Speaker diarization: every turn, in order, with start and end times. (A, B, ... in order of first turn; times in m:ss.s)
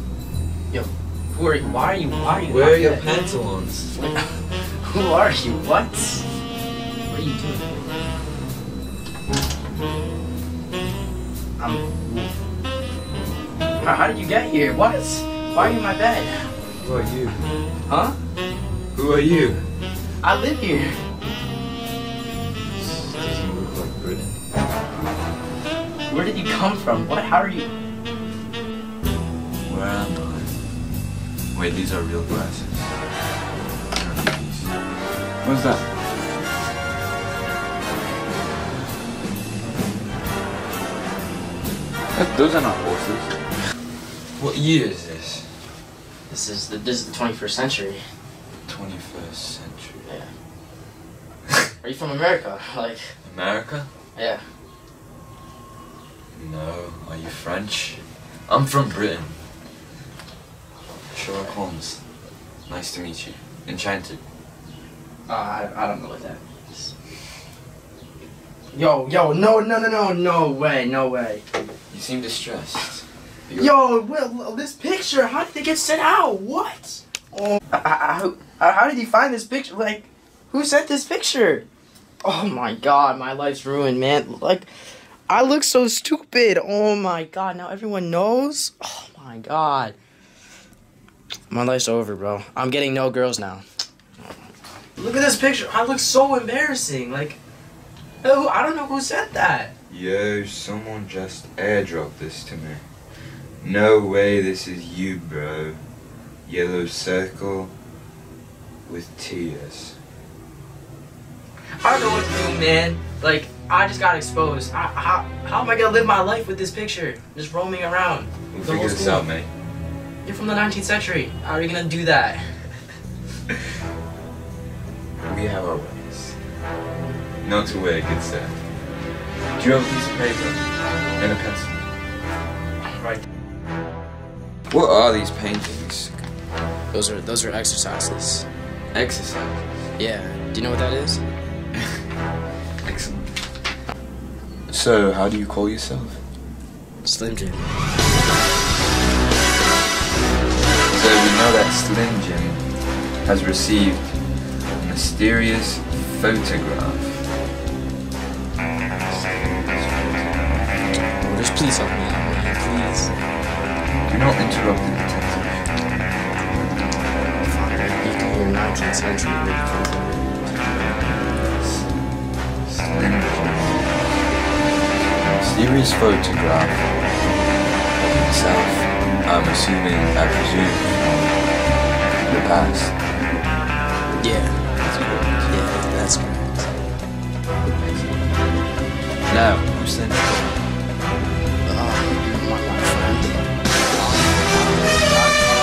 0:00.7-0:03.1 A
0:02.5-0:03.9 B
0:03.9-0:06.2 A
0:07.1-0:07.9 A
0:11.6-0:12.3 A
0:13.8-0:16.5 A
0:16.8-0:17.4 B
0:17.9-0:18.2 A
0:19.0-0:19.6 B
0:20.2-0:21.0 A
0:22.8-0:24.4 B
0:26.1-0:27.7 A
0:29.6-0:30.6 B
0:31.5-0:33.0 B
0:33.9-0:34.8 B
0:35.4-0:35.9 B
0:42.1-0:43.5 B
0:44.4-0:45.5 B
0:46.3-0:48.0 A
0:48.7-0:50.0 B
0:50.0-0:50.3 A
0:51.8-0:53.2 A
0:53.2-0:53.9 B
0:54.2-0:54.4 A
0:56.3-0:59.4 B
1:01.0-1:02.0 B
1:02.7-1:04.2 B
1:05.3-1:06.9 A
1:08.7-1:11.4 A
1:11.9-1:13.7 B
1:13.6-1:21.6 A
1:22.2-1:24.7 A
1:25.3-1:30.0 A
1:31.5-1:33.6 A
1:35.0-1:37.4 A
1:38.2-1:39.7 A
1:39.9-1:42.8 B
1:43.6-1:45.8 B
1:46.5-1:47.7 B
1:48.9-1:50.0 B
1:51.8-1:59.3 A
1:58.5-1:59.5 B
2:00.2-2:02.7 A
2:05.2-2:06.4 B
2:07.4-2:08.6 B
2:09.6-2:11.9 B
2:14.7-2:16.2 B
2:16.9-2:18.5 A
2:18.9-2:19.9 B
2:20.0-2:21.2 A
2:22.8-2:23.3 B
2:24.7-2:26.2 B
2:27.0-2:27.7 A
2:30.9-2:37.2 B
2:39.0-2:40.6 B
2:41.2-2:43.1 A
2:44.1-2:45.9 B
2:47.3-2:50.3 A
2:51.4-2:54.2 B
2:55.0-2:57.4 B
2:58.0-3:01.5 B
3:02.2-3:03.0 B
3:04.2-3:04.7 A
3:04.8-3:05.6 B
3:05.5-3:06.8 A
3:07.7-3:08.4 B
3:09.3-3:10.8 B
3:11.6-3:13.4 A
3:14.0-3:15.4 B
3:14.1-3:15.0 A